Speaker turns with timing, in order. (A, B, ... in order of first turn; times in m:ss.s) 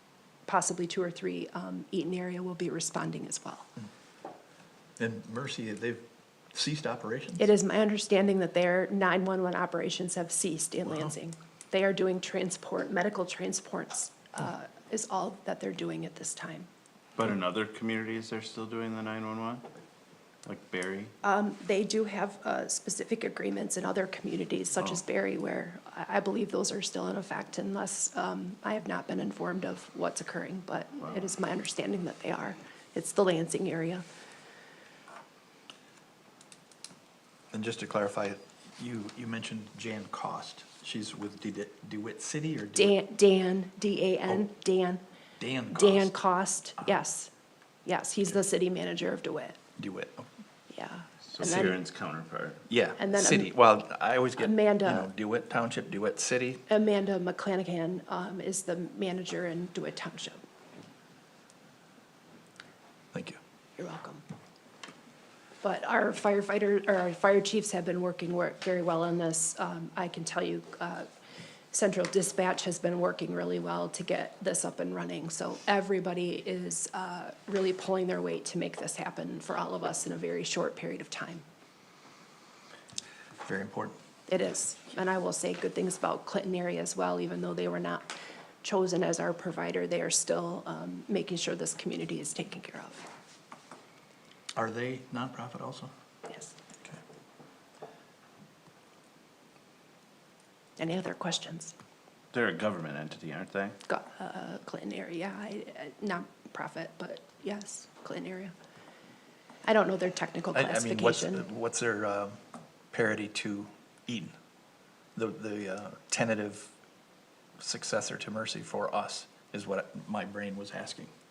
0:00.5-0:03.7 A
0:05.0-0:06.0 B
0:06.5-0:07.5 B
0:07.4-0:16.7 A
0:17.2-0:19.6 C
0:20.5-0:21.1 C
0:21.2-0:34.0 A
0:37.5-0:43.0 B
0:42.8-0:45.0 A
0:45.4-0:46.1 B
0:45.7-0:47.3 A
0:47.8-0:49.6 A
0:49.8-0:50.3 B
0:50.7-0:51.8 A
0:51.3-0:52.6 C
0:52.7-0:56.6 B
0:53.0-0:53.6 A
0:54.4-0:55.1 A
0:56.7-1:00.4 A
1:03.1-1:03.4 B
1:03.8-1:04.2 A
1:05.6-1:11.1 A
1:11.7-1:21.4 A
1:23.4-1:24.0 B
1:24.3-1:33.0 A
1:34.6-1:35.9 B
1:36.3-1:36.5 A
1:40.8-1:41.8 A
1:42.3-1:43.8 C
1:43.9-1:48.5 A
1:49.6-1:51.5 A
1:50.5-1:52.4 B
1:52.9-1:54.3 B
1:55.2-1:56.7 B
1:57.6-2:01.1 B